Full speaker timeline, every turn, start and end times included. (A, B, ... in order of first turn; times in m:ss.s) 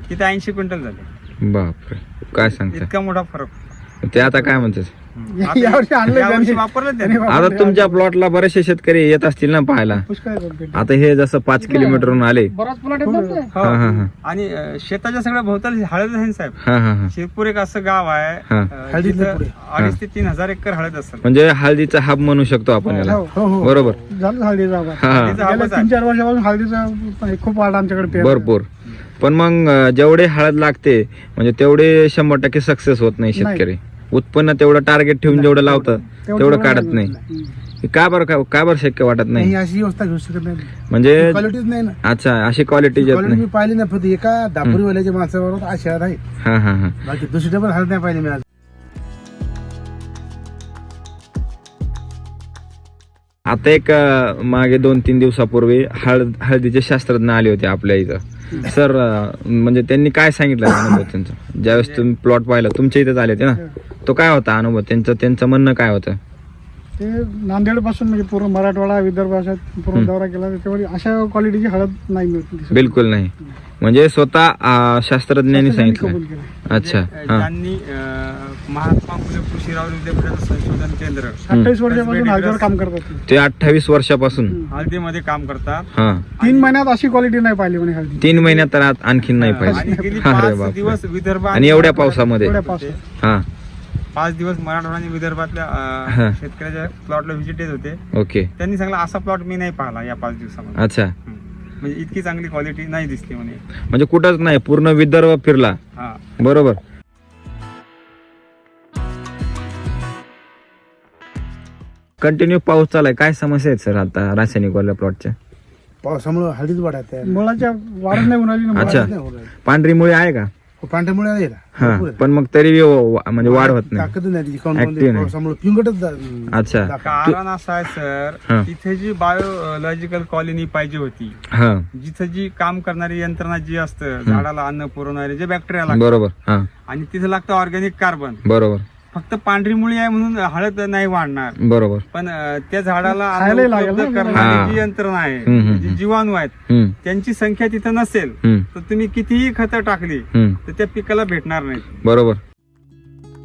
0:00.1-0:01.1 A
0:01.4-0:02.9 B
0:02.5-0:03.5 A
0:04.0-0:04.9 B
0:04.2-0:04.7 C
0:05.2-0:07.3 A
0:05.3-0:08.0 C
0:07.3-0:10.1 B
0:09.9-0:10.9 C
0:10.7-0:12.5 B
0:11.6-0:13.5 D
0:11.7-0:12.1 C
0:13.0-0:13.4 C
0:13.5-0:16.6 A
0:13.6-0:14.1 B
0:16.6-0:17.1 B
0:17.1-0:21.3 A
0:18.9-0:19.5 E
0:21.2-0:24.0 B
0:22.8-0:23.4 C
0:22.9-0:24.0 E
0:24.0-0:28.5 C
0:25.0-0:25.4 B
0:25.0-0:25.9 A
0:28.1-0:28.7 B
0:29.2-0:37.1 B
0:33.4-0:33.6 C
0:35.3-0:36.0 E
0:36.2-0:37.5 C
0:37.8-0:39.6 B
0:39.4-0:42.0 E
0:40.9-0:41.5 B
0:42.0-0:43.4 B
0:43.0-0:46.2 E
0:46.4-0:47.0 B
0:47.0-0:48.4 E
0:53.5-1:06.2 B
1:01.7-1:02.1 A
1:07.0-1:13.0 C
1:12.7-1:17.5 B
1:15.5-1:16.6 C
1:16.7-1:22.7 A
1:21.4-1:23.2 C
1:21.5-1:21.8 B
1:23.3-1:24.6 B
1:24.5-1:24.9 C
1:24.7-1:26.7 A
1:25.9-1:26.3 B
1:26.4-1:28.7 C
1:28.2-1:31.0 B
1:29.4-1:33.0 A
1:29.5-1:30.2 C
1:31.5-1:32.6 B
1:31.6-1:33.0 C
1:33.2-1:33.5 B
1:34.2-1:38.0 A
1:36.1-1:36.4 B
1:38.1-1:38.5 B
1:38.6-1:43.6 A
1:40.8-1:41.1 B
1:43.9-1:45.8 B
1:46.0-1:46.2 A
1:46.4-1:46.8 B
1:52.2-1:55.4 B
1:56.0-1:57.4 E
1:57.2-1:59.1 C
1:58.1-1:59.1 B
1:58.8-1:59.5 E
1:59.6-2:00.5 B
2:00.8-2:02.2 E
2:01.8-2:04.1 B
2:03.4-2:07.4 E
2:04.8-2:05.3 B
2:06.5-2:07.4 B
2:07.0-2:11.4 A
2:11.5-2:11.9 B
2:11.9-2:16.2 A
2:15.9-2:16.7 B
2:16.9-2:18.4 A
2:18.4-2:18.8 B
2:19.1-2:21.6 A
2:21.6-2:22.0 B
2:22.1-2:31.9 A
2:23.1-2:24.7 C
2:24.3-2:24.8 B
2:25.4-2:26.0 B
2:26.7-2:27.0 B
2:30.3-2:30.6 B
2:32.0-2:32.4 B